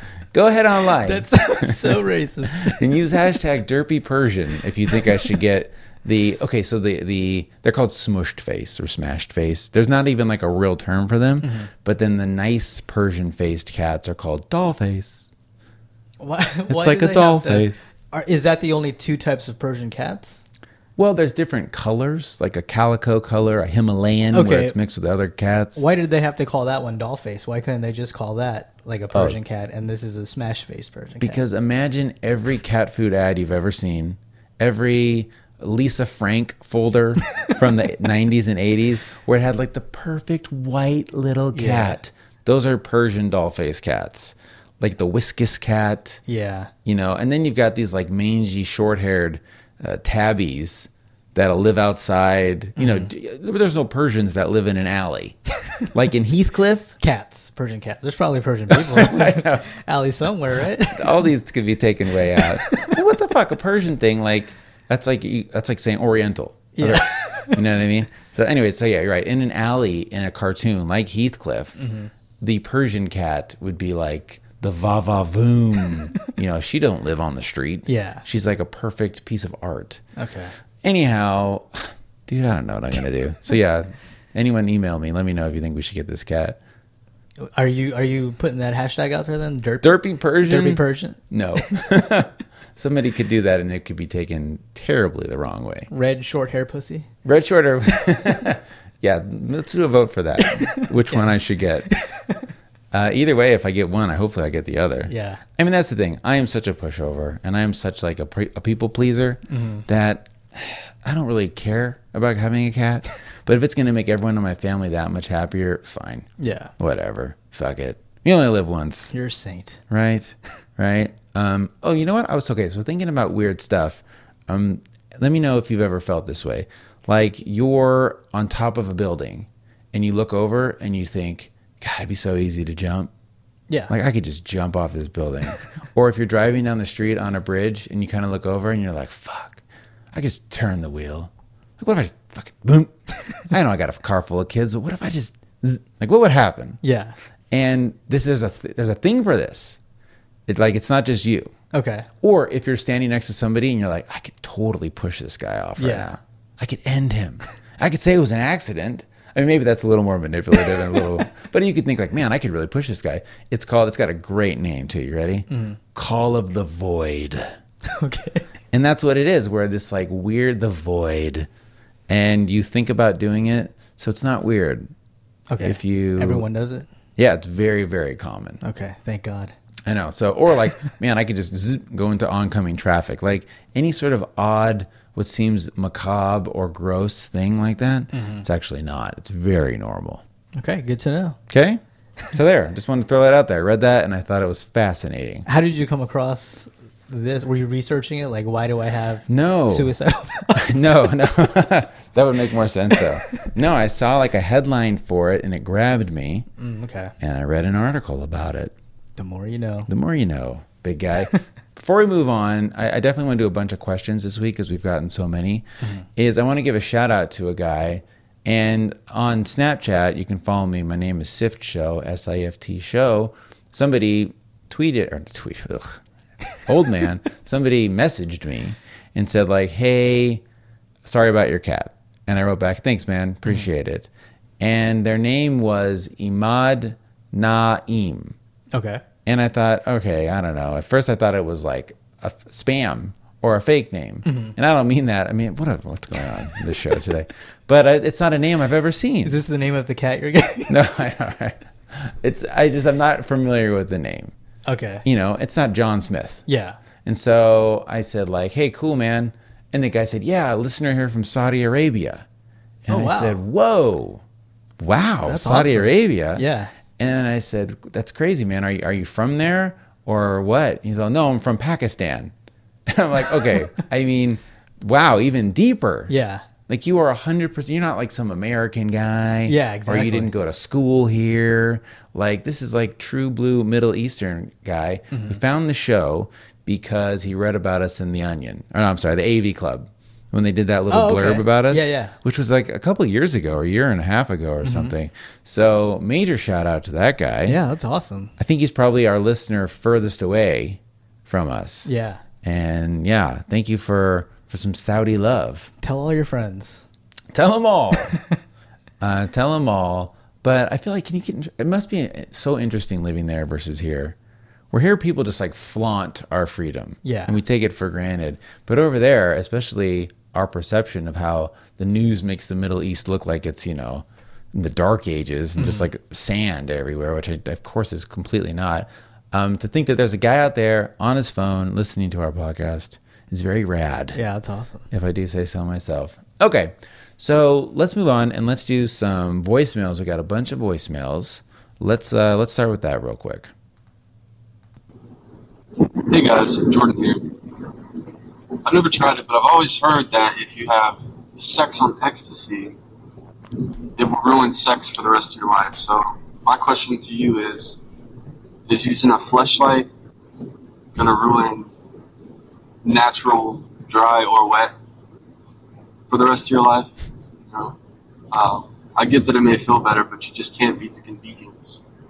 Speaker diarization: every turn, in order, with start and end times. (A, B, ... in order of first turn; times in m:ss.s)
0:00.3-0:15.3 A
0:00.9-0:02.8 B
0:11.4-0:11.7 B
0:16.2-0:20.4 B
0:16.7-0:17.9 A
0:21.0-0:25.8 A
0:24.3-0:24.8 B
0:25.8-0:31.4 B
0:29.1-0:29.4 A
0:31.2-0:46.2 A
0:41.5-0:42.0 B
0:46.3-0:46.7 B
0:46.8-0:55.4 A
0:52.8-0:53.1 B
0:55.9-0:57.0 A
0:57.0-1:01.2 B
0:58.7-0:59.7 A
1:00.8-1:11.8 A
1:02.4-1:03.0 B
1:06.8-1:07.6 B
1:11.8-1:12.1 B
1:12.4-1:20.0 A
1:17.9-1:18.2 B
1:20.2-1:20.5 B
1:20.8-1:26.6 A
1:27.4-1:31.2 B
1:29.8-1:35.9 A
1:35.9-1:37.1 B
1:37.2-1:41.9 A
1:40.4-1:41.3 B
1:41.9-1:42.4 B
1:42.9-1:56.3 A
1:45.1-1:45.4 B
1:49.5-1:49.9 B
1:56.4-1:56.7 B
1:56.8-1:59.1 A
1:59.1-1:59.8 B
1:59.9-2:13.1 A
2:13.9-2:19.6 A
2:20.1-2:26.8 A
2:26.8-2:27.2 B
2:27.5-2:29.8 A
2:30.5-2:31.5 A
2:31.7-2:32.1 B
2:32.2-2:47.5 A
2:35.8-2:36.1 B
2:40.7-2:41.0 B
2:45.5-2:45.8 B
2:47.8-2:48.5 B
2:48.7-2:51.5 A
2:52.1-2:54.9 A
2:55.5-2:56.9 B
2:55.6-2:56.5 A
2:57.2-2:58.6 A
2:58.6-2:59.5 B
2:59.9-3:10.2 A
3:08.1-3:08.5 B
3:10.6-3:11.4 B
3:11.5-3:15.5 A
3:15.5-3:21.1 B
3:19.3-3:19.9 A
3:20.6-3:26.5 A
3:26.6-3:27.1 B
3:27.2-3:28.7 A
3:29.2-3:29.9 B
3:29.9-3:46.0 A
3:35.8-3:36.1 B
3:46.5-3:50.4 A
3:51.0-3:54.1 A
3:54.6-3:58.4 A
3:58.7-3:59.0 B
3:59.2-4:09.4 A
4:04.2-4:04.6 B
4:09.2-4:10.8 B
4:10.7-4:14.3 A
4:14.7-4:15.1 B
4:15.0-4:16.4 A
4:16.5-4:16.8 B
4:17.0-4:22.2 A
4:22.8-4:24.2 A
4:22.9-4:23.4 B
4:24.8-4:26.4 A
4:25.2-4:26.7 B
4:27.0-4:32.3 A
4:32.9-4:36.1 A
4:36.1-4:36.4 B
4:36.7-4:57.6 A
4:39.5-4:40.3 B
4:45.1-4:45.4 B
4:50.9-4:52.2 B
4:54.6-4:55.0 B
4:57.4-4:58.3 B
4:58.4-5:01.9 A
5:01.8-5:02.2 B
5:02.4-5:05.7 A
5:05.8-5:06.8 B
5:07.3-5:08.2 A
5:07.9-5:08.4 B
5:09.0-5:14.2 A
5:14.7-5:34.2 A
5:17.0-5:17.4 B
5:25.6-5:25.9 B
5:34.1-5:34.9 B
5:34.9-5:43.5 A
5:45.8-5:47.6 C
5:48.6-5:52.8 C
5:53.6-5:57.8 C
5:58.7-5:59.9 C
6:01.0-6:01.7 C
6:02.8-6:04.7 C
6:06.1-6:07.0 C
6:07.5-6:07.8 C
6:08.3-6:11.8 C